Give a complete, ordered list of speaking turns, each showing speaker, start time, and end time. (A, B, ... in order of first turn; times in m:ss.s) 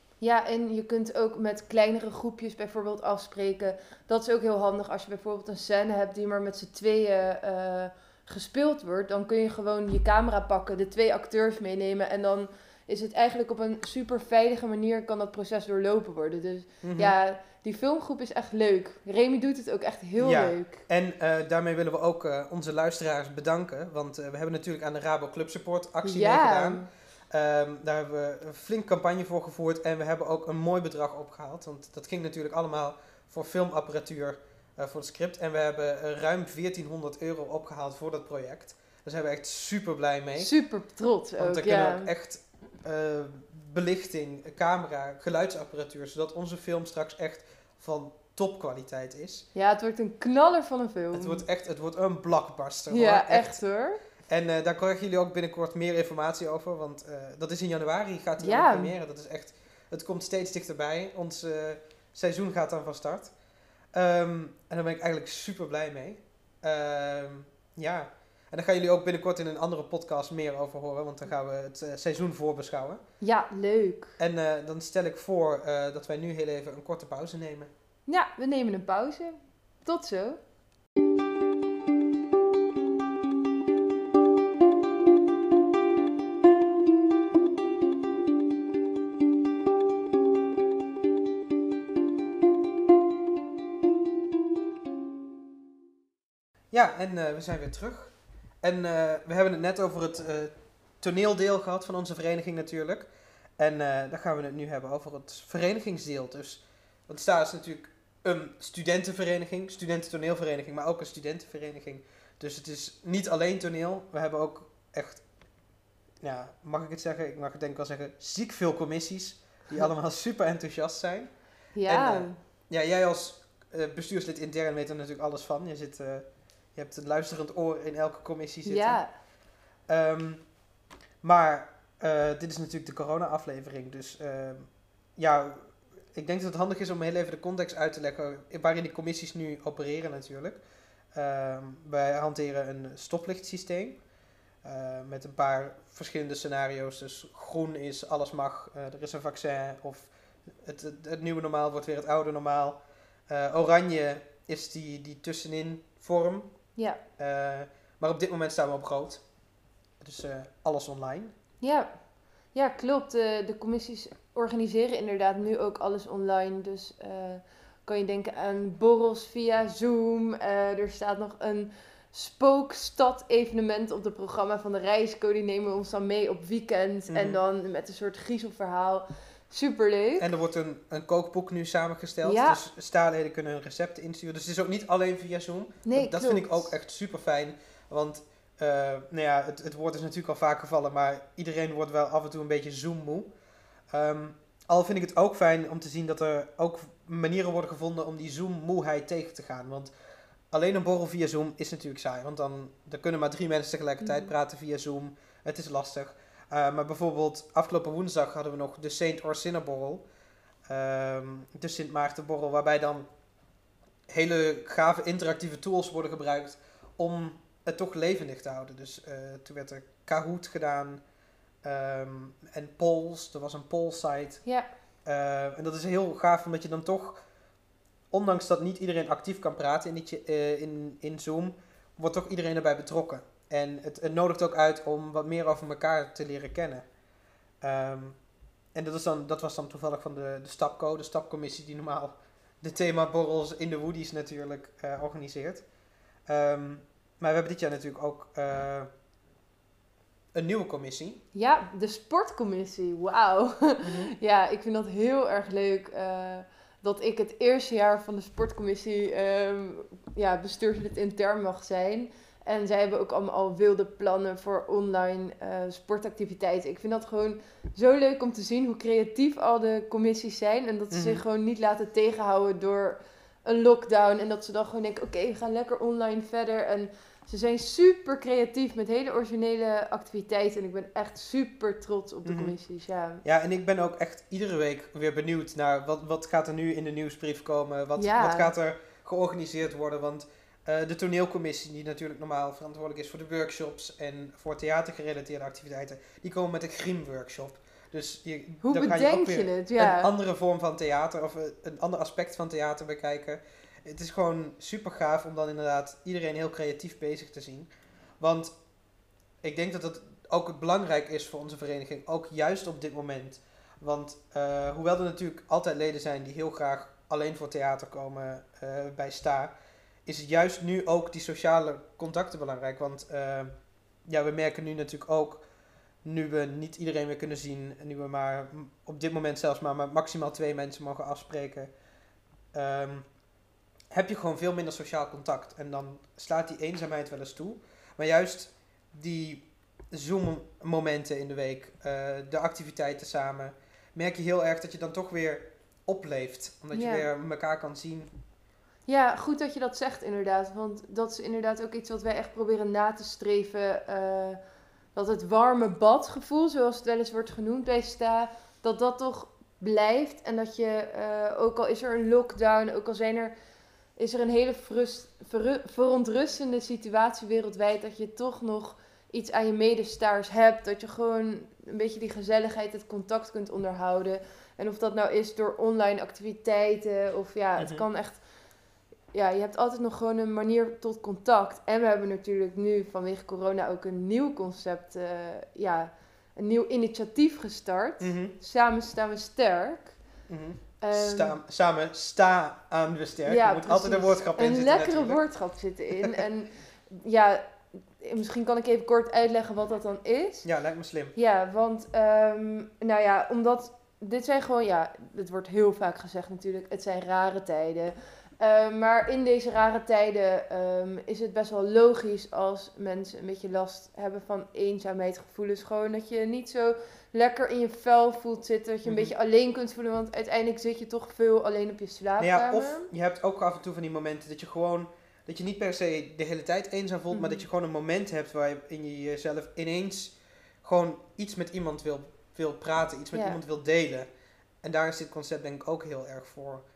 0:00.2-0:20.8 A
0:16.8-0:17.1 B
0:20.2-0:40.5 B
0:26.0-0:26.9 A
0:40.3-0:42.1 A
0:41.4-0:49.4 B
0:49.5-0:51.4 A
0:51.1-0:53.6 B
0:52.9-0:54.0 A
0:54.3-1:03.3 B
0:58.4-0:58.9 A
1:03.9-1:13.0 B
1:13.2-1:14.1 A
1:14.2-1:17.7 B
1:18.1-1:20.4 A
1:36.7-1:55.2 B
1:56.2-2:01.3 B
2:01.8-2:02.4 A
2:01.8-2:09.0 B
2:08.6-2:09.1 A
2:09.9-2:10.4 B
2:11.2-2:20.6 B
2:21.1-2:24.0 B
2:24.6-2:36.5 B
2:37.2-2:39.2 B
2:40.0-2:41.3 B
2:41.6-2:41.9 A
2:42.5-3:00.3 A
2:57.1-2:57.4 B
3:00.2-3:13.3 B
3:02.2-3:02.6 A
3:05.8-3:06.7 A
3:13.9-3:19.9 B
3:20.5-3:30.0 B
3:24.0-3:24.3 A
3:30.6-3:33.1 B
3:34.1-3:41.0 B
3:41.6-3:44.4 B
3:45.0-3:47.2 B
3:48.1-3:56.8 B
3:57.6-3:58.2 B
3:58.7-4:05.6 B
4:06.3-4:08.9 B
4:10.3-4:11.2 B
4:11.3-4:43.2 A
4:13.8-4:14.1 B
4:30.9-4:31.2 B
4:42.2-4:42.5 B
4:43.2-5:08.5 B
4:48.0-4:48.5 A
4:58.6-5:00.1 A
5:09.4-5:19.5 B
5:20.0-5:23.5 B
5:24.0-5:25.4 B
5:26.0-5:31.7 B
5:32.5-5:33.0 B
5:33.9-5:48.1 B
5:46.7-5:47.1 A
5:48.9-5:54.4 A
5:54.9-6:03.3 A
6:04.0-6:18.2 A
6:17.6-6:17.8 B
6:19.1-6:30.0 A
6:28.0-6:28.3 B
6:30.3-6:35.2 B
6:30.8-6:31.4 A
6:33.2-6:37.4 A
6:38.0-6:40.5 A
6:40.4-6:41.1 B
6:41.1-7:02.9 A
6:58.8-6:59.1 B
7:02.2-7:14.1 B
7:07.1-7:07.4 A
7:13.1-7:13.4 A
7:14.6-7:16.6 B